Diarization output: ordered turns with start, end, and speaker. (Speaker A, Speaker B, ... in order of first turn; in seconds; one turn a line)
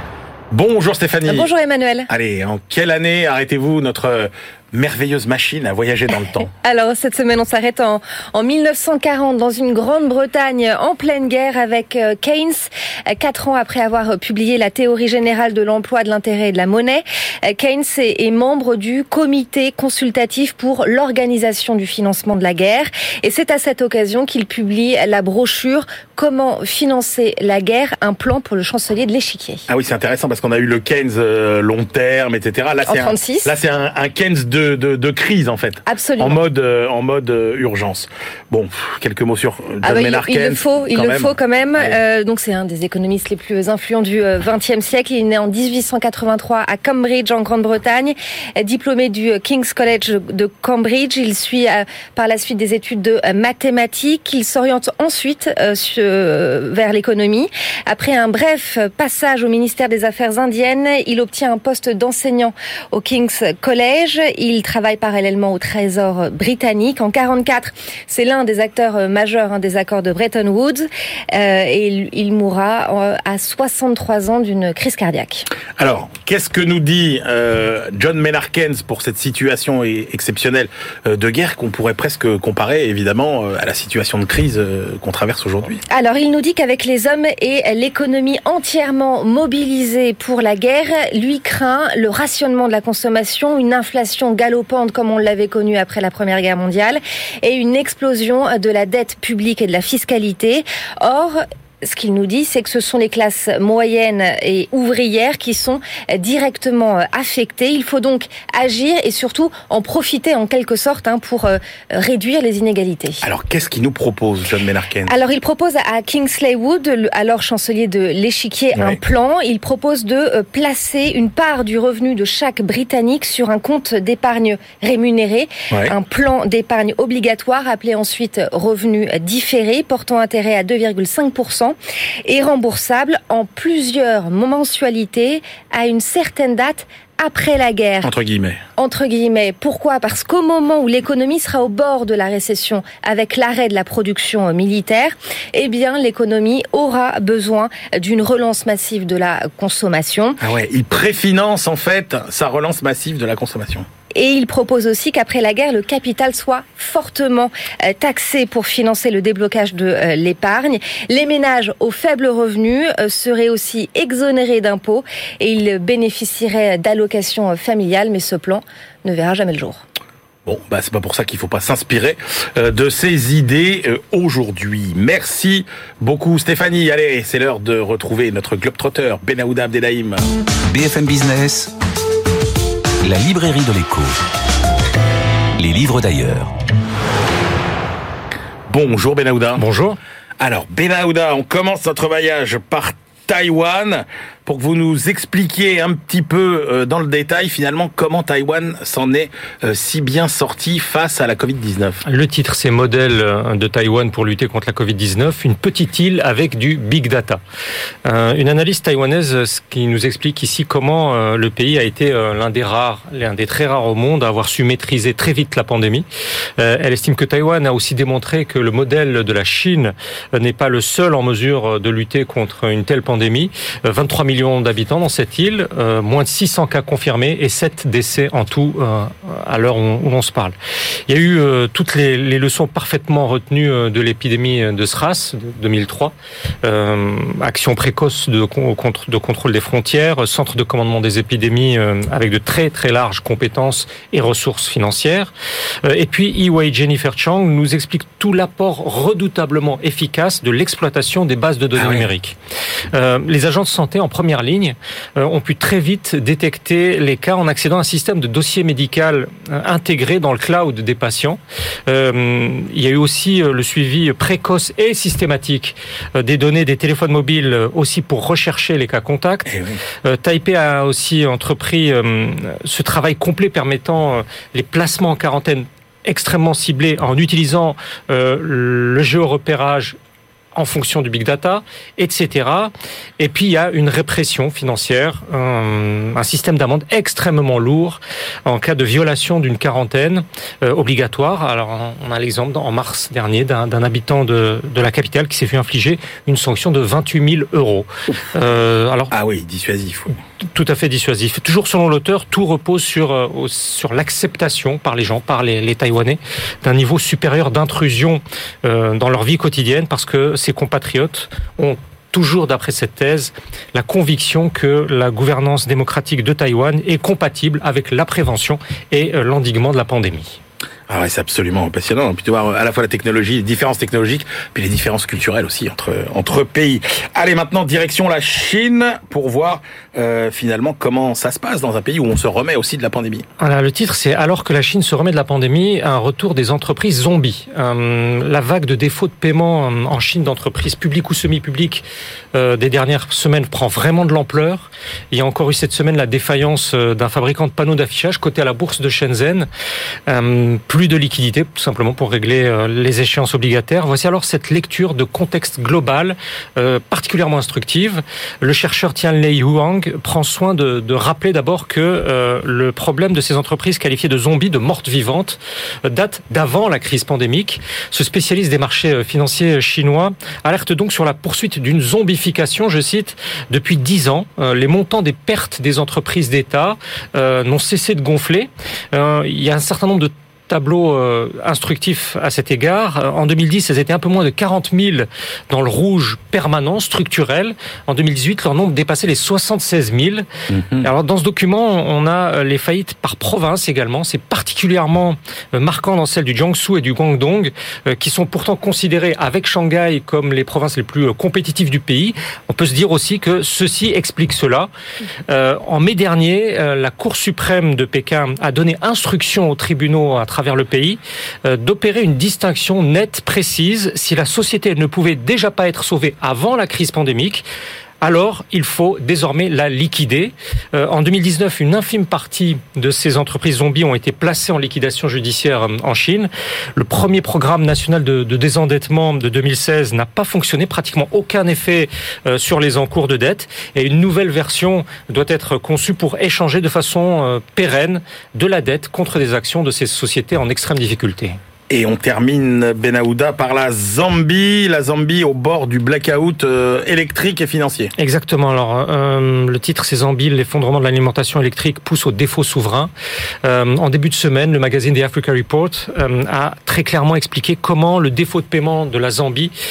Speaker A: 0.5-1.5
Speaker B: 1.3-2.1
Speaker A: 2.1-6.5
Speaker B: 6.6-29.6
Speaker A: 29.7-42.0
Speaker B: 32.9-33.5
Speaker B: 35.9-36.4
Speaker B: 39.8-75.5
Speaker A: 75.8-85.8
Speaker B: 85.9-113.2
Speaker A: 113.2-115.2
Speaker B: 115.1-138.1
Speaker A: 138.0-138.6
Speaker B: 138.8-150.4
Speaker A: 150.4-153.9
Speaker B: 154.2-169.8
Speaker A: 170.5-180.2
Speaker C: 180.7-181.7
Speaker C: 183.0-184.2
Speaker C: 185.6-186.5
Speaker A: 188.7-189.7
Speaker D: 189.6-190.0
Speaker A: 190.4-202.0
Speaker D: 202.1-207.4
Speaker D: 208.1-216.1
Speaker D: 216.6-230.6
Speaker D: 231.1-236.1
Speaker D: 236.6-245.3
Speaker D: 245.8-252.4
Speaker A: 251.8-252.1
Speaker D: 252.9-280.0
Speaker A: 269.5-269.8
Speaker D: 280.6-299.1
Speaker A: 299.1-300.1
Speaker D: 300.5-320.4
Speaker A: 320.9-333.2
Speaker D: 333.4-349.5
Speaker D: 350.1-390.3
Speaker A: 390.5-390.9
Speaker D: 390.8-404.7
Speaker D: 405.3-417.4
Speaker D: 418.0-441.4
Speaker A: 441.7-447.9
Speaker D: 448.0-452.9
Speaker D: 453.4-459.5